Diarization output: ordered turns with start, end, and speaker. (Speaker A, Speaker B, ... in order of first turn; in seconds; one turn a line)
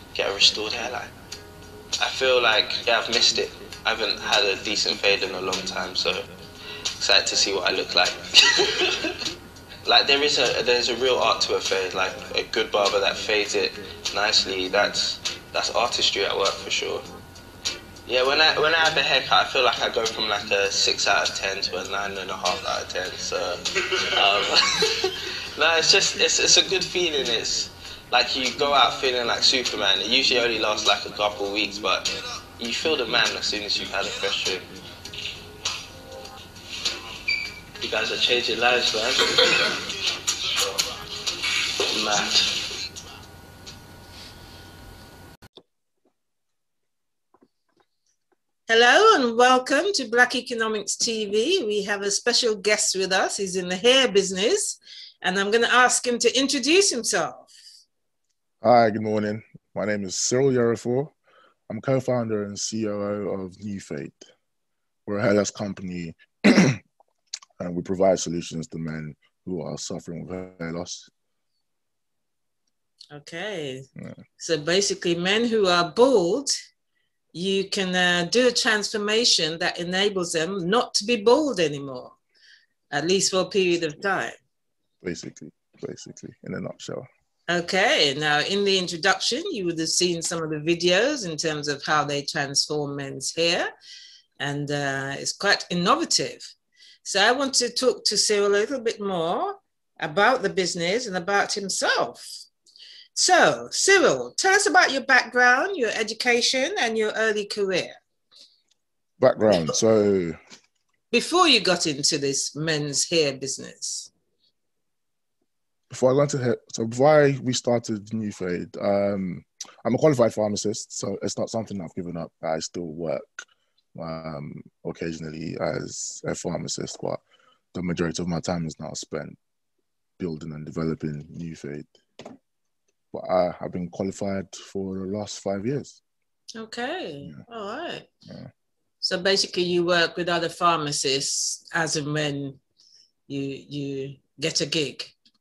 Speaker A: 0.1-1.1
Speaker A: 2.0-6.2
Speaker A: 7.0-8.9
Speaker A: 9.8-17.0
Speaker A: 18.1-23.6
Speaker A: 24.1-34.7
Speaker A: 37.8-39.4
Speaker A: 41.9-42.5
Speaker B: 48.7-57.5
Speaker C: 58.6-61.1
Speaker C: 61.7-64.3
Speaker C: 65.1-66.8
Speaker C: 67.6-71.1
Speaker B: 73.1-73.9
Speaker B: 74.4-76.5
Speaker B: 77.3-82.2
Speaker B: 82.9-84.4
Speaker C: 85.0-87.1
Speaker B: 87.5-93.7
Speaker B: 94.4-96.5
Speaker B: 97.0-102.4
Speaker B: 103.2-108.0
Speaker C: 109.2-110.4
Speaker B: 109.5-109.7
Speaker B: 111.1-114.1
Speaker C: 115.9-127.2
Speaker C: 127.7-129.4
Speaker C: 130.2-132.0
Speaker C: 133.1-136.0
Speaker B: 136.6-138.1
Speaker B: 139.0-142.6
Speaker B: 143.3-145.1